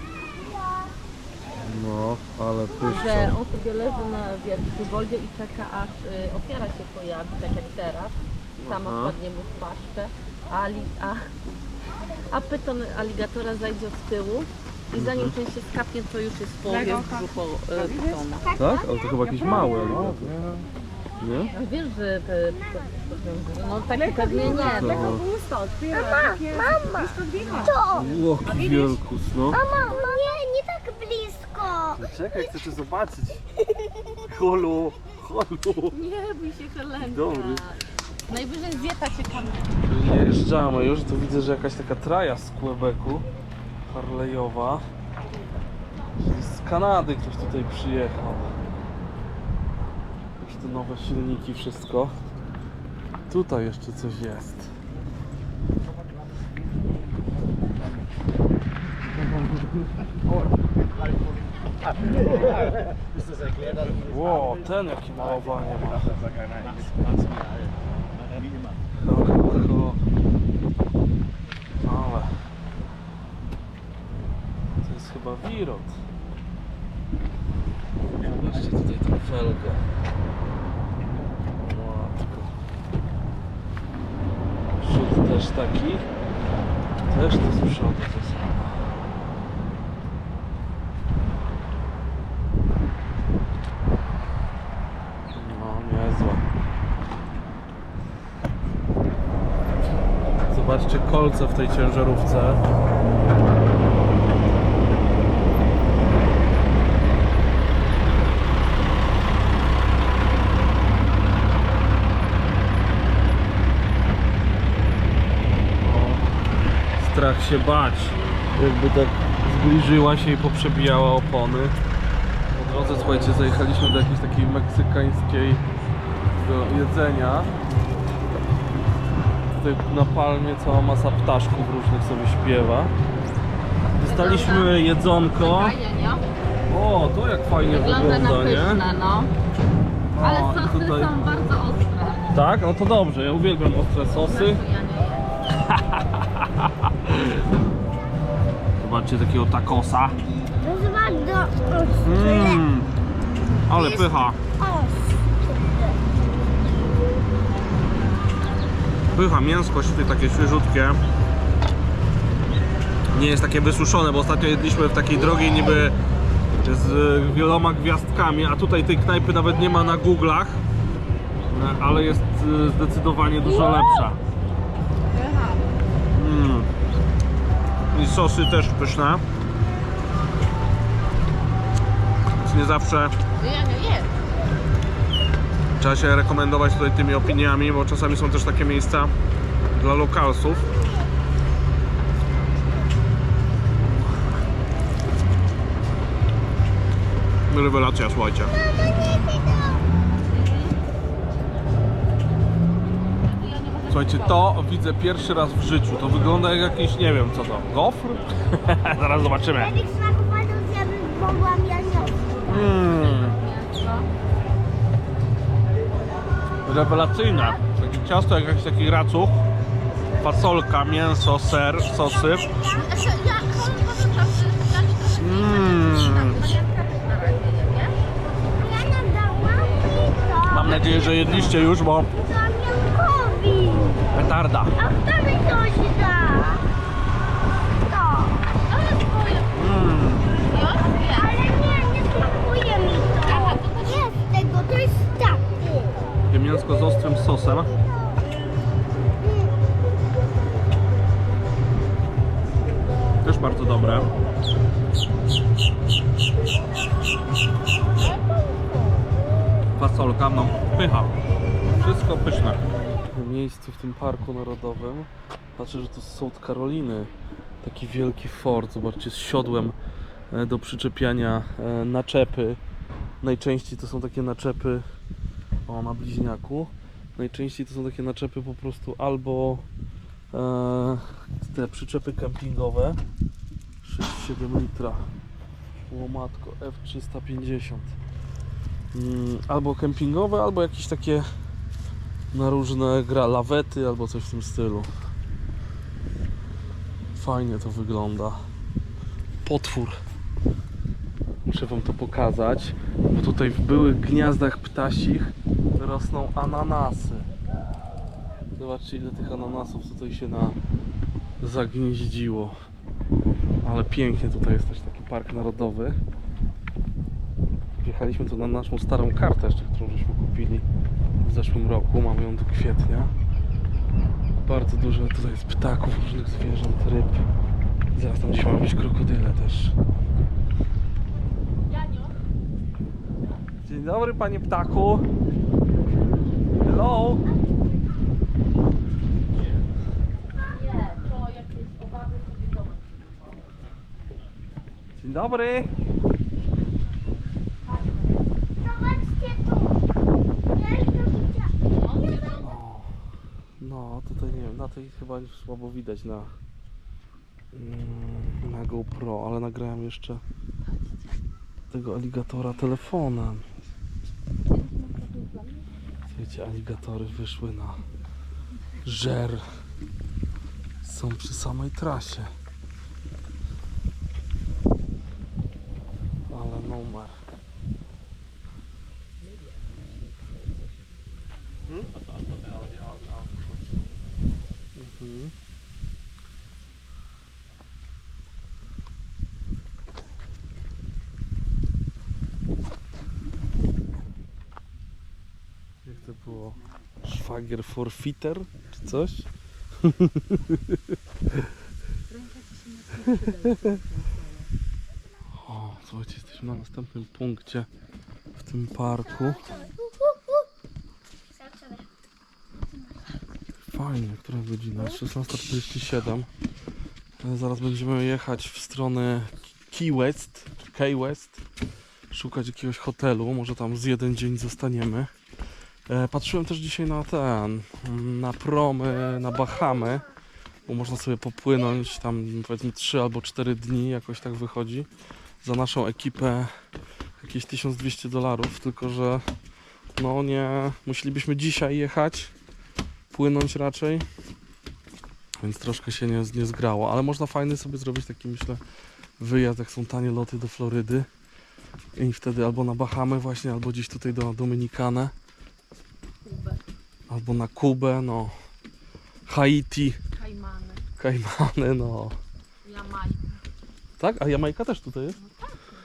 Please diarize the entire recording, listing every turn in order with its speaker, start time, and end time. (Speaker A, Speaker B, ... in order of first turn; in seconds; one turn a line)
Speaker A: 1.6-3.4
Speaker B: 2.8-11.3
Speaker A: 8.6-9.2
Speaker B: 12.3-18.5
Speaker A: 14.9-15.3
Speaker A: 18.5-20.6
Speaker C: 18.6-18.8
Speaker A: 21.2-21.5
Speaker B: 21.5-26.5
Speaker C: 24.4-25.1
Speaker A: 24.5-25.3
Speaker C: 25.9-28.1
Speaker B: 27.2-28.9
Speaker A: 27.9-29.6
Speaker C: 29.5-32.1
Speaker A: 31.9-33.4
Speaker A: 34.3-36.0
Speaker B: 35.9-39.6
Speaker A: 37.0-37.6
Speaker A: 39.9-43.3
Speaker A: 43.9-44.8
Speaker A: 46.2-48.5
Speaker A: 50.4-52.1
Speaker A: 53.3-54.7
Speaker A: 64.0-66.7
Speaker A: 69.0-70.0
Speaker A: 71.8-72.3
Speaker A: 74.8-76.0
Speaker A: 78.0-79.8
Speaker A: 81.6-82.5
Speaker A: 84.8-86.1
Speaker A: 87.0-88.8
Speaker A: 95.3-96.5
Speaker A: 100.5-102.6
Speaker A: 115.8-116.3
Speaker A: 117.0-121.7
Speaker A: 122.5-125.6
Speaker A: 126.4-127.5
Speaker A: 129.5-132.9
Speaker B: 133.9-134.8
Speaker A: 134.0-135.8
Speaker B: 135.3-136.2
Speaker A: 136.7-138.8
Speaker B: 137.6-139.3
Speaker A: 140.1-141.2
Speaker B: 140.2-142.4
Speaker A: 142.3-144.6
Speaker B: 144.2-145.3
Speaker A: 145.7-147.4
Speaker A: 148.8-150.2
Speaker C: 150.6-152.6
Speaker A: 152.0-152.9
Speaker A: 153.7-154.4
Speaker C: 153.7-156.0
Speaker A: 159.1-161.0
Speaker A: 163.1-165.9
Speaker A: 166.6-170.6
Speaker A: 171.5-174.2
Speaker B: 175.1-175.6
Speaker A: 176.1-176.7
Speaker A: 177.9-179.2
Speaker A: 182.4-183.1
Speaker B: 183.4-184.1
Speaker A: 185.8-189.1
Speaker A: 189.7-190.7
Speaker A: 197.5-198.5
Speaker C: 199.0-199.8
Speaker B: 200.2-200.8
Speaker B: 203.2-204.5
Speaker A: 203.9-209.7
Speaker C: 209.5-212.2
Speaker A: 212.4-213.3
Speaker B: 212.5-214.1
Speaker A: 216.7-219.4
Speaker A: 220.2-222.5
Speaker C: 222.4-223.9
Speaker B: 223.5-227.9
Speaker A: 225.1-226.5
Speaker C: 228.5-234.0
Speaker A: 230.5-232.1
Speaker A: 234.1-234.7
Speaker C: 234.8-236.7
Speaker C: 237.8-238.5
Speaker B: 238.7-239.6
Speaker A: 239.5-240.3
Speaker B: 240.3-241.4
Speaker C: 240.9-246.0
Speaker B: 243.2-244.2
Speaker A: 246.3-247.7
Speaker A: 253.2-254.1
Speaker A: 259.8-261.1
Speaker A: 261.7-267.1
Speaker A: 267.6-269.8
Speaker A: 270.3-272.6
Speaker A: 273.2-274.8
Speaker A: 275.7-279.6
Speaker A: 280.3-283.0
Speaker A: 283.8-285.0
Speaker A: 285.9-287.9
Speaker A: 288.9-291.2
Speaker A: 292.3-294.9
Speaker A: 297.1-298.4
Speaker A: 299.4-300.0
Speaker A: 301.4-307.3
Speaker A: 308.6-310.6
Speaker A: 311.4-312.6
Speaker A: 313.6-316.0
Speaker A: 317.8-320.6
Speaker A: 321.2-323.1
Speaker A: 324.4-327.2
Speaker A: 327.9-329.7
Speaker B: 331.7-332.1
Speaker A: 333.6-335.1
Speaker A: 336.6-337.2
Speaker B: 340.6-343.4
Speaker A: 345.0-345.7
Speaker C: 348.6-349.8
Speaker C: 350.5-351.7
Speaker B: 351.7-352.4
Speaker A: 352.4-352.9
Speaker A: 353.6-356.3
Speaker A: 357.5-360.2
Speaker A: 361.7-363.4
Speaker B: 364.5-365.6
Speaker A: 366.1-367.8
Speaker A: 368.8-369.4
Speaker A: 370.8-372.3
Speaker A: 376.3-377.1
Speaker A: 384.8-385.3
Speaker A: 395.8-399.3
Speaker A: 399.8-401.5
Speaker B: 402.1-404.0
Speaker A: 402.9-403.8
Speaker A: 405.4-407.7
Speaker A: 408.4-409.5
Speaker C: 409.1-409.7
Speaker C: 411.3-411.9
Speaker A: 413.7-416.3
Speaker A: 417.2-421.4
Speaker A: 422.1-425.1
Speaker A: 425.9-430.1
Speaker A: 430.7-434.9
Speaker A: 435.4-436.5
Speaker A: 437.2-439.2
Speaker A: 439.9-442.3
Speaker A: 443.1-444.0
Speaker A: 445.4-448.6
Speaker A: 449.2-451.1
Speaker A: 451.9-455.1
Speaker B: 456.2-456.6
Speaker A: 457.1-458.3
Speaker A: 459.3-460.0
Speaker B: 460.1-460.8
Speaker A: 461.0-462.2
Speaker B: 462.6-463.4
Speaker A: 464.0-465.2